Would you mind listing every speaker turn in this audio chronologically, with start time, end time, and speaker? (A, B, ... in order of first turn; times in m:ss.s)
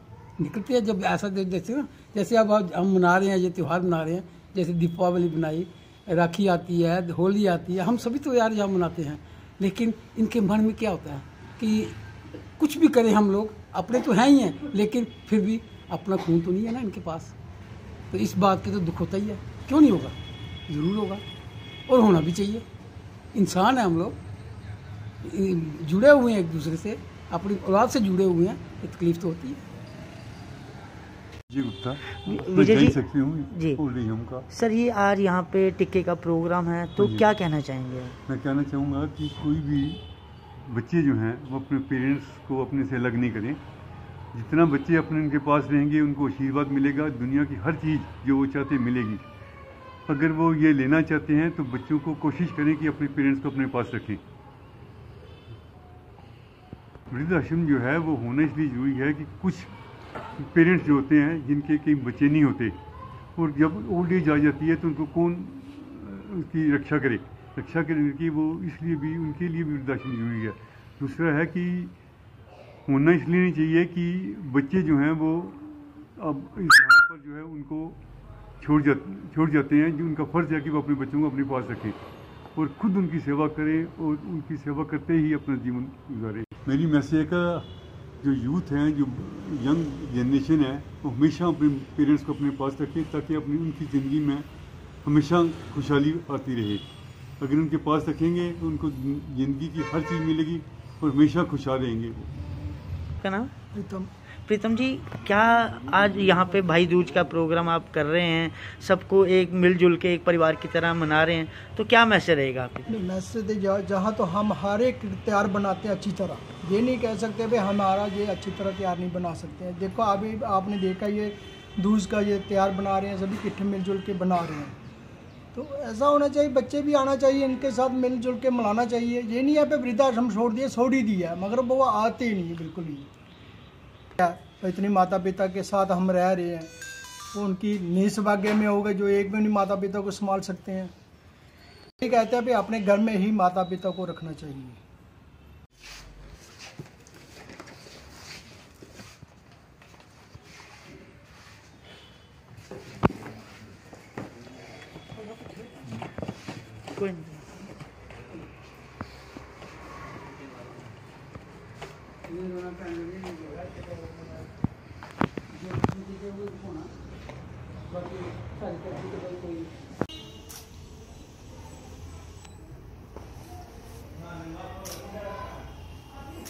0:00.4-0:12.0 A
0:12.6-0:17.3 A
0:18.1-0:20.2 A
0:20.7-0:21.2 A
0:21.9-0:22.6 A
0:23.3-0:24.2 A
0:25.2-0:29.6 A
0:31.5-0:34.5 B
0:32.1-0:33.8 C
0:34.5-0:38.2 C
0:37.0-0:37.3 B
0:38.3-0:40.0 B
0:40.6-0:43.6 B
0:44.3-0:49.2 B
0:50.1-0:54.2 B
0:57.1-0:59.7 B
1:00.4-1:02.8 B
1:03.4-1:12.0 B
1:12.9-1:18.0 B
1:18.6-1:22.0 B
1:22.6-1:27.7 B
1:28.2-1:34.5 B
1:35.0-1:36.8 B
1:37.4-1:42.3 B
1:43.2-1:43.5 C
1:43.7-1:44.1 D
1:44.5-1:52.9 C
1:52.9-2:04.8 D
2:05.5-2:13.1 D
2:14.2-2:16.7 D
2:17.3-2:20.9 D
2:22.0-2:24.8 D
2:37.0-2:37.4 C
2:42.3-2:44.1 A
2:45.5-2:46.9 A
2:47.9-2:49.7 A